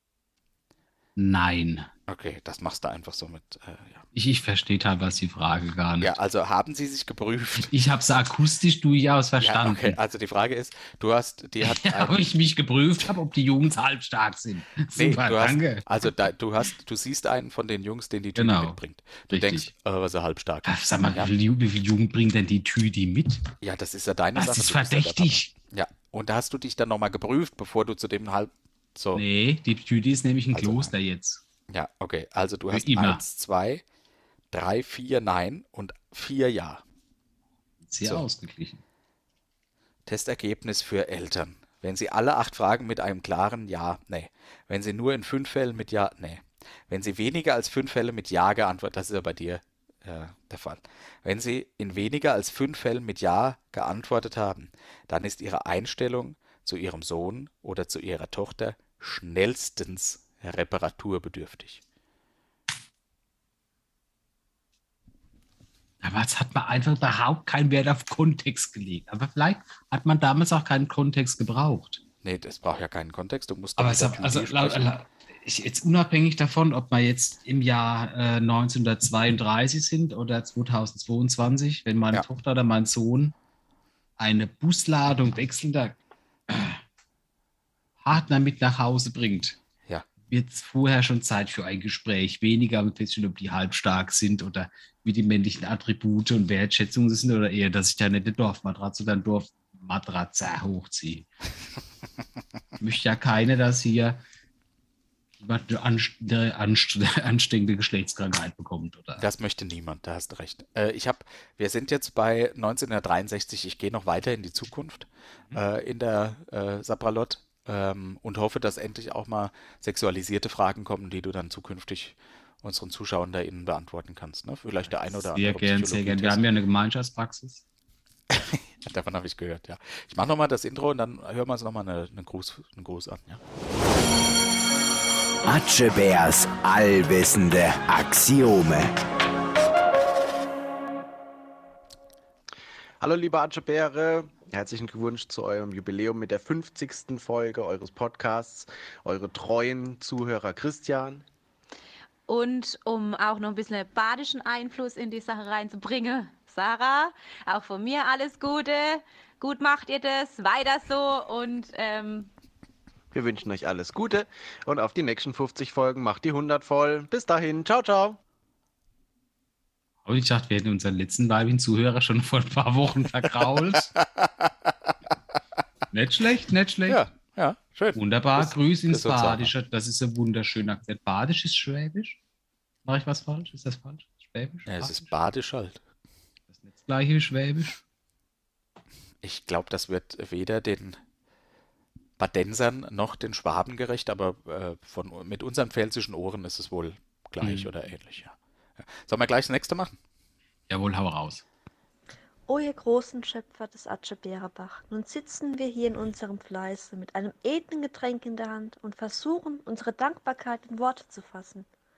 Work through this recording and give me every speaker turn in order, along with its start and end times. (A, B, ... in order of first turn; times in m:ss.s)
0:01.2-0:01.9 A
0:02.1-0:04.1 B
0:04.1-0:06.1 A
0:06.0-0:07.7 B
0:07.6-0:10.0 A
0:09.4-0:12.2 B
0:11.6-0:15.9 A
0:15.0-0:21.3 B
0:18.4-0:18.8 A
0:19.3-0:19.7 A
0:20.6-0:23.5 A
0:23.6-0:29.2 B
0:24.4-0:25.5 A
0:29.2-0:31.4 A
0:30.5-0:30.9 B
0:31.7-0:33.8 B
0:32.7-0:33.2 A
0:34.5-0:36.8 B
0:37.8-0:38.8 A
0:40.1-1:01.8 B
1:06.0-1:12.0 A
1:12.2-1:14.9 B
1:13.8-1:23.4 A
1:24.2-1:26.8 A
1:28.0-1:29.6 A
1:30.3-1:41.3 A
1:42.8-1:44.2 A
1:45.4-1:49.2 A
1:49.2-2:06.4 B
2:05.1-2:07.6 A
2:08.3-2:13.4 B
2:15.4-2:18.9 C
2:23.0-2:31.2 D
2:32.3-2:42.3 E
2:43.1-2:48.2 D
2:50.0-2:53.9 A
2:54.0-2:54.5 B
2:55.9-2:57.0 A
2:56.9-2:59.5 B
2:58.0-3:02.2 A
3:02.8-3:05.2 A
3:04.7-3:05.8 B
3:06.5-3:07.8 A
3:09.2-3:11.0 B
3:12.2-3:20.0 B
3:17.4-3:17.7 A
3:20.7-3:21.4 A
3:22.5-3:31.7 F